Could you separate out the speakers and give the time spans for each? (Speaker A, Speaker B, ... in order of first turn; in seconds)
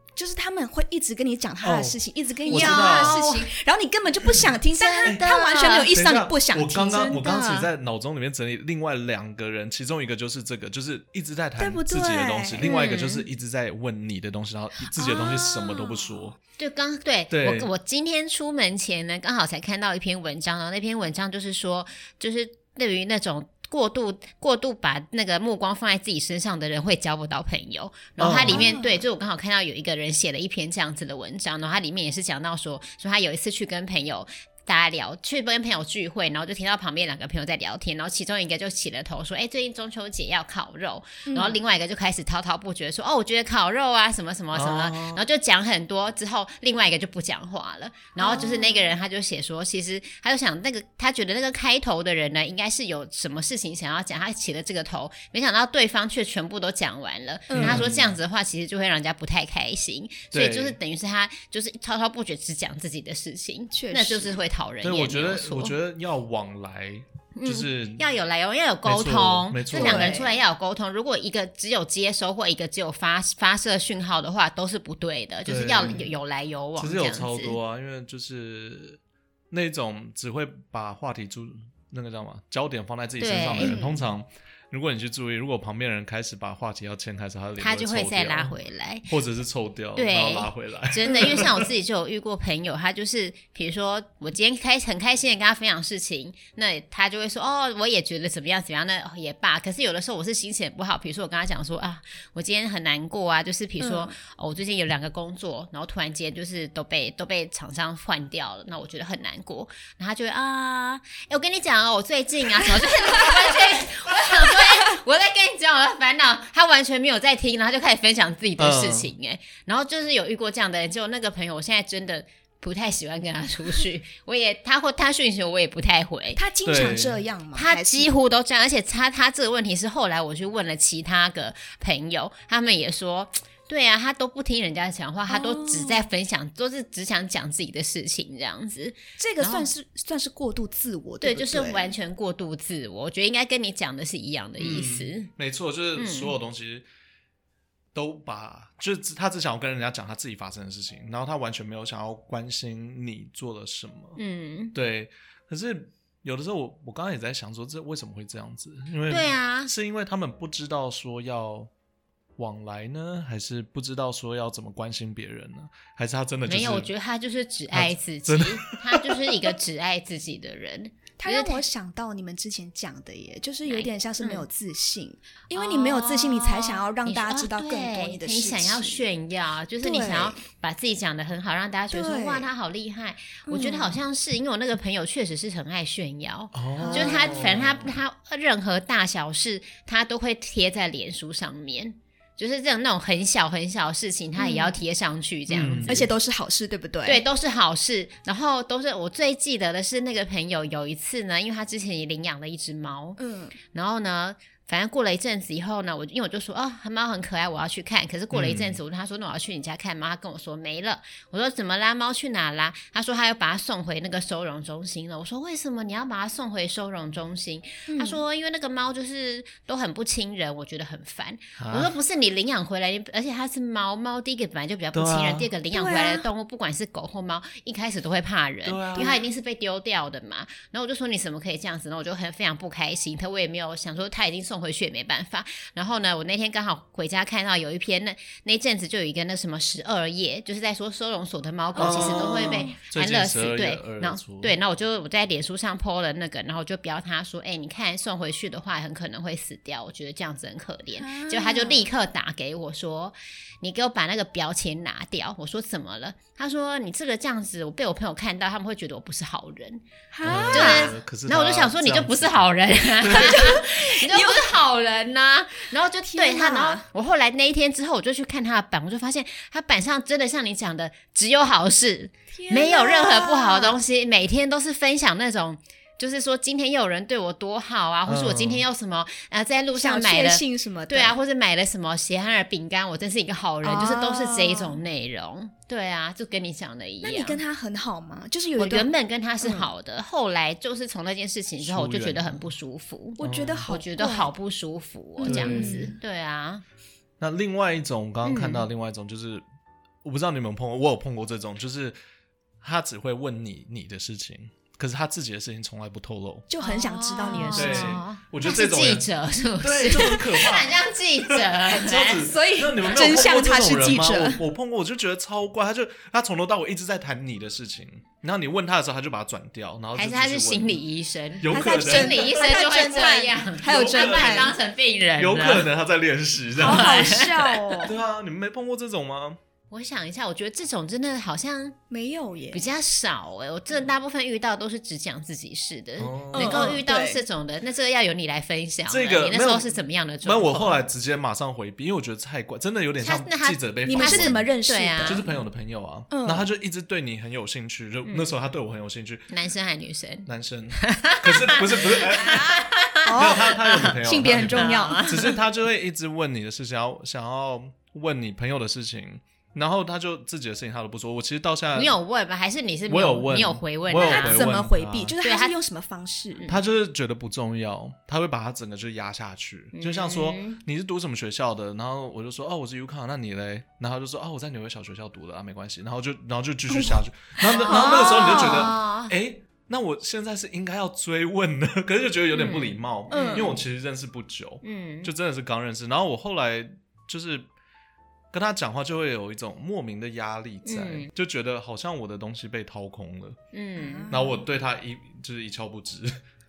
Speaker A: 0.2-7.2, 11.6-12.7, 15.0-16.2, 28.5-29.1, 41.3-41.6, 48.2-48.9, 57.5-57.9, 63.7-64.4, 69.7-70.3, 83.6-84.1, 91.1-91.4, 103.8-104.1, 126.4-128.1, 135.3-136.1, 139.2-141.9, 171.2-179.0, 179.8-180.4, 181.9-182.5, 183.5-184.0, 186.8-187.3, 194.4-194.8, 195.8-197.2, 203.2-203.6, 217.9-218.2, 225.7-226.3, 229.0-229.2, 241.8-242.8, 251.0-251.9, 260.1-260.9, 263.2-264.6, 266.1-266.9, 272.3-273.8, 279.8-281.2, 283.6-284.8, 287.0-288.9, 289.4-289.7, 293.2-294.3, 295.2-296.0, 306.5-308.0, 312.3-314.4, 321.5-324.6, 326.6-327.9, 331.9-332.6, 336.3-337.2, 343.9-345.3, 346.1-346.5, 352.2-355.4, 364.0-366.5, 376.7-378.7, 383.1-383.6, 393.8-394.4
Speaker B: 1.6-3.2, 5.9-16.4, 17.3-17.7, 28.2-28.7, 44.5-45.2, 57.6-58.2, 60.3-60.8, 64.8-68.1, 68.8-70.2, 75.5-76.1, 76.8-79.0, 79.5-88.5, 89.1-91.7, 118.6-119.1, 126.7-127.2, 144.6-146.9, 147.9-154.2, 154.7-161.7, 162.4-166.9, 167.7-169.5, 186.5-188.0, 195.5-196.1, 208.3-208.8, 221.6-221.9, 224.9-225.5, 228.7-229.2, 241.8-244.6, 260.2-263.4, 278.1-278.6, 291.6-292.5, 293.2-293.7, 295.2-295.9, 297.2-299.4, 300.0-302.0, 302.6-306.5, 307.5-309.1, 309.6-320.8, 321.4-322.6, 323.6-324.6, 325.2-327.3, 327.8-329.4, 336.0-336.8, 338.9-344.5, 345.0-349.3, 350.3-352.6, 353.1-362.0, 362.9-365.1, 366.5-387.5, 388.3-393.4, 394.1-396.1
Speaker C: 2.5-3.5, 4.7-5.9, 6.9-7.7, 12.6-13.2, 16.6-65.8, 67.3-77.6, 83.2-83.8, 87.6-89.1, 90.0-126.4, 127.5-139.7, 141.2-145.3, 146.0-146.3, 154.2-154.8, 159.1-159.7, 166.5-171.6, 173.7-174.5, 175.5-196.1, 197.1-203.2, 203.7-287.4, 288.6-296.6, 298.2-298.7, 306.6-312.3, 319.9-325.7, 326.6-327.9, 329.7-331.8, 332.5-340.8, 343.0-345.2, 349.3-354.0, 354.5-355.3, 361.8-364.5, 365.2-365.6, 369.7-370.6, 377.4-379.1, 382.3-383.5, 384.6-385.1, 390.6-391.1, 393.5-394.1